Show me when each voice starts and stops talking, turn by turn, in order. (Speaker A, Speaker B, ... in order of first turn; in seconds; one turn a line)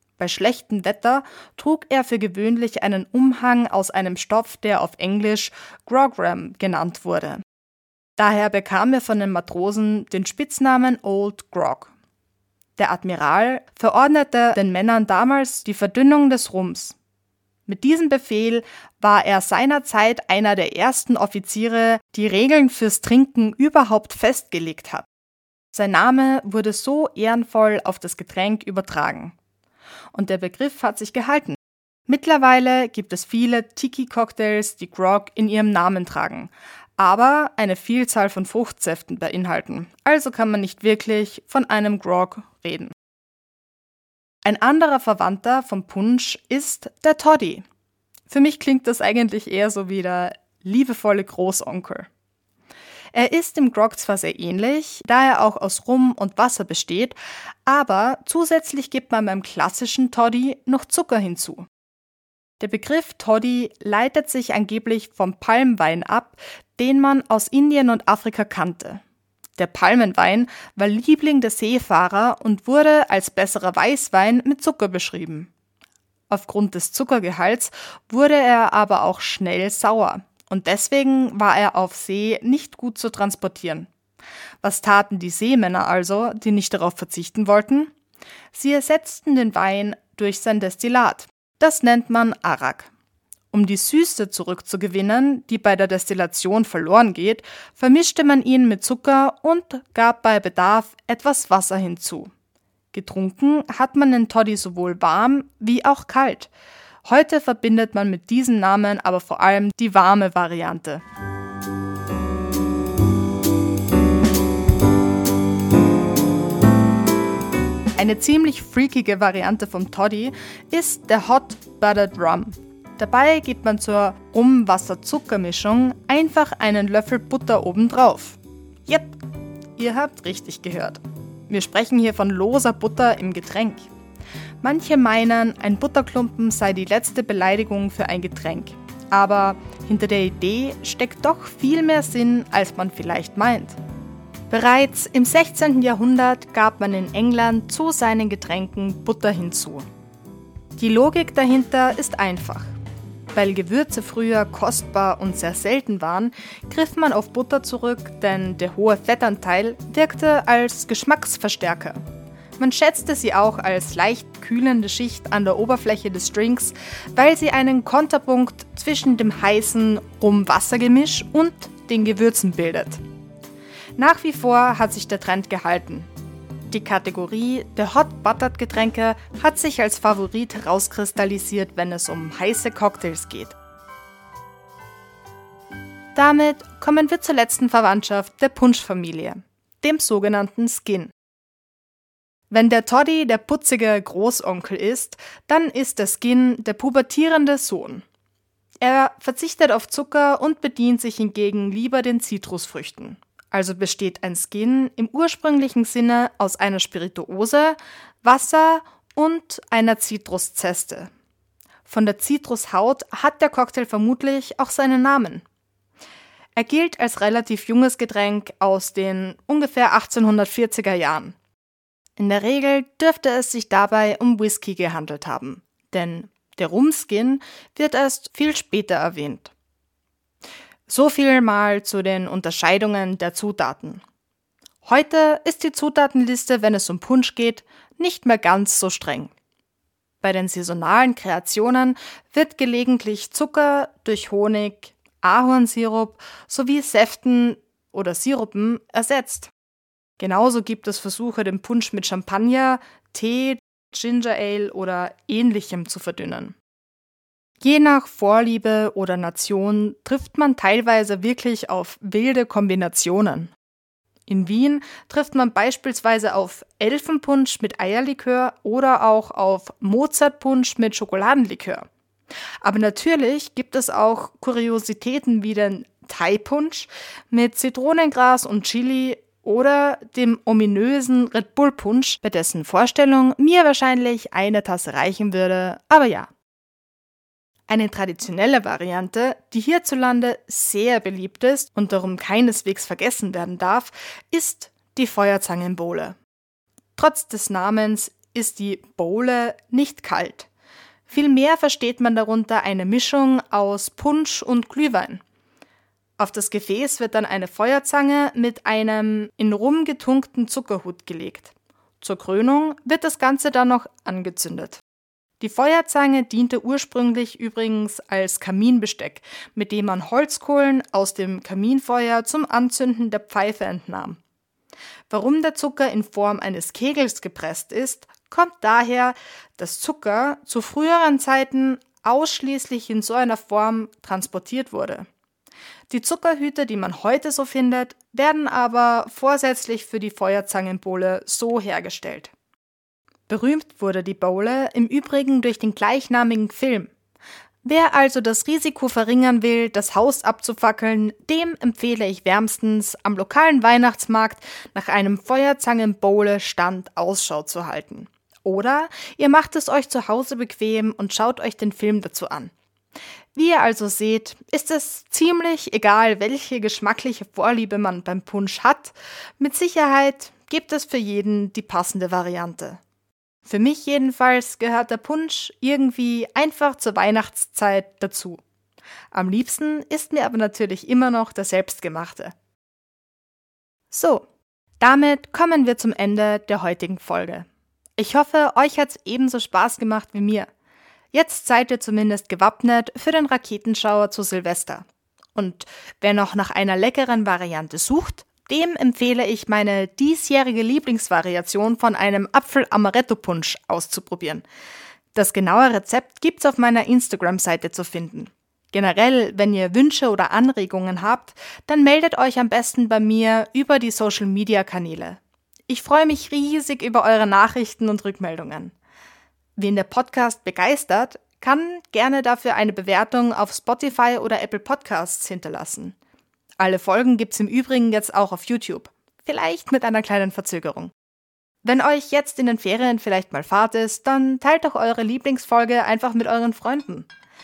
Speaker A: 0.2-7.4
Speaker A: 8.2-11.9
Speaker A: 12.8-16.9
Speaker A: 17.6-25.1
Speaker A: 25.7-29.4
Speaker A: 30.1-31.6
Speaker A: 32.1-42.9
Speaker A: 44.4-47.6
Speaker A: 48.3-52.1
Speaker A: 53.1-61.7
Speaker A: 62.6-69.0
Speaker A: 69.6-75.5
Speaker A: 76.3-83.9
Speaker A: 84.6-87.9
Speaker A: 88.5-92.9
Speaker A: 93.5-102.3
Speaker A: 102.9-106.5
Speaker A: 107.0-111.0
Speaker A: 118.0-129.2
Speaker A: 129.8-133.9
Speaker A: 134.6-143.8
Speaker A: 144.5-149.8
Speaker A: 150.8-152.7
Speaker A: 153.3-162.0
Speaker A: 162.6-173.0
Speaker A: 174.0-176.1
Speaker A: 176.7-183.5
Speaker A: 186.1-191.1
Speaker A: 192.5-198.0
Speaker A: 198.8-211.1
Speaker A: 211.9-215.4
Speaker A: 216.6-221.3
Speaker A: 222.2-229.5
Speaker A: 230.9-234.0
Speaker A: 234.8-239.3
Speaker A: 240.2-249.5
Speaker A: 250.2-256.6
Speaker A: 257.6-263.5
Speaker A: 264.3-271.9
Speaker A: 272.6-286.3
Speaker A: 287.7-296.2
Speaker A: 297.0-300.5
Speaker A: 301.1-305.2
Speaker A: 306.2-314.8
Speaker A: 315.4-324.2
Speaker A: 325.1-335.1
Speaker A: 335.9-342.3
Speaker A: 343.3-346.9
Speaker A: 347.6-362.5
Speaker A: 363.3-372.8
Speaker A: 373.4-378.4
Speaker A: 379.1-382.3
Speaker A: 383.9-384.2
Speaker A: 384.8-390.5
Speaker A: 391.1-404.4
Speaker A: 405.1-418.7
Speaker A: 419.6-425.9
Speaker A: 426.6-430.9
Speaker A: 431.6-437.1